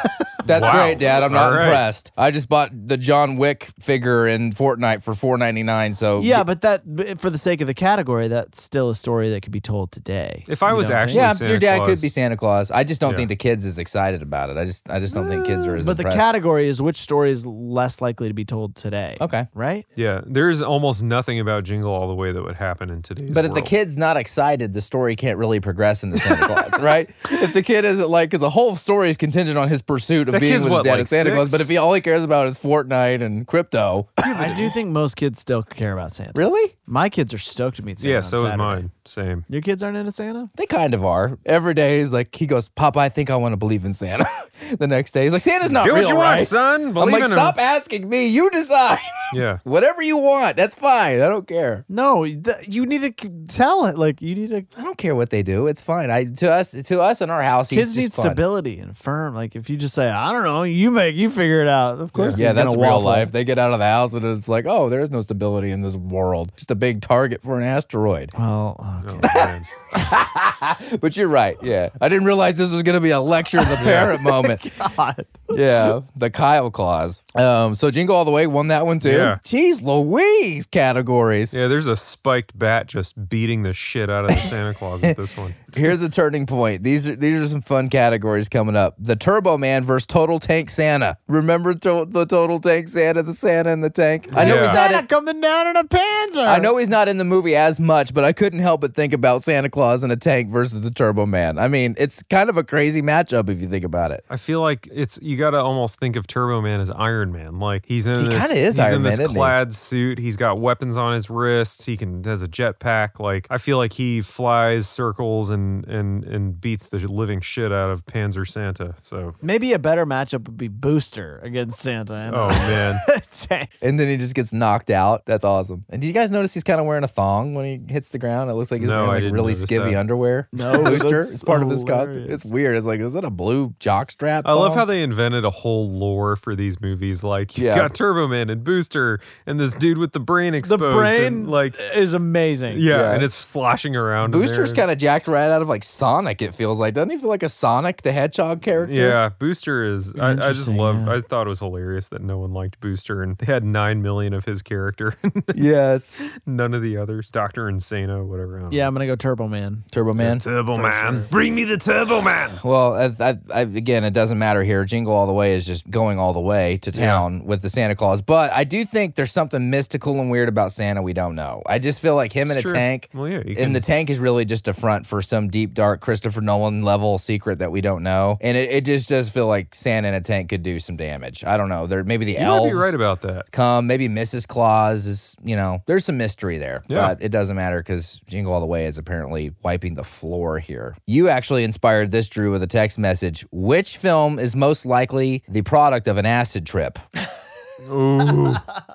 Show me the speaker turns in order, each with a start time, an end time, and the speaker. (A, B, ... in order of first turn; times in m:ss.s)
0:00.4-0:06.4 A
0:00.4-0:01.8 B
0:06.2-0:11.3 C
0:10.5-0:12.1 B
0:11.1-0:16.4 A
0:13.0-0:13.3 B
0:15.1-0:19.8 C
0:19.2-0:19.5 A
0:20.0-0:23.7 B
0:23.3-0:34.3 A
0:30.3-0:31.7 B
0:34.2-0:38.8 C
0:34.4-0:34.7 B
0:36.3-0:36.7 A
0:38.0-0:39.5 B
0:39.5-0:40.5 C
0:40.6-0:51.8 A
0:45.6-0:47.6 B
0:49.3-0:49.6 B
0:51.9-0:54.7 C
0:54.7-0:58.4 A
0:57.7-1:03.3 C
1:02.1-1:02.4 B
1:02.3-1:08.3 A
1:08.3-1:09.5 C
1:09.0-1:09.6 B
1:09.2-1:14.6 A
1:13.8-1:14.2 B
1:13.8-1:15.9 C
1:15.5-1:21.6 A
1:19.0-1:19.4 B
1:21.5-1:25.9 B
1:24.3-1:25.1 A
1:25.7-1:35.0 A
1:34.3-1:34.8 B
1:34.3-1:36.7 C
1:36.4-1:44.2 A
1:44.3-1:59.4 B
1:48.2-1:49.6 A
1:59.4-2:03.7 C
2:02.3-2:03.0 B
2:03.8-2:14.9 A
2:08.8-2:10.0 B
2:10.5-2:12.4 C
2:10.7-2:11.0 B
2:14.4-2:21.8 B
2:17.6-2:17.9 A
2:20.6-2:22.8 C
2:22.7-2:24.8 B
2:22.9-2:23.3 A
2:24.2-2:29.2 A
2:28.8-2:35.6 B
2:30.2-2:31.2 C
2:35.5-2:36.2 A
2:36.2-2:38.9 B
2:38.7-2:39.9 C
2:39.9-2:40.4 A
2:40.2-2:42.6 B
2:40.7-2:41.3 C
2:42.6-3:02.9 A
2:46.9-2:47.3 B
2:52.5-2:53.8 B
3:02.3-3:03.4 B
3:03.5-3:17.0 A
3:06.9-3:07.1 B
3:17.8-3:18.7 B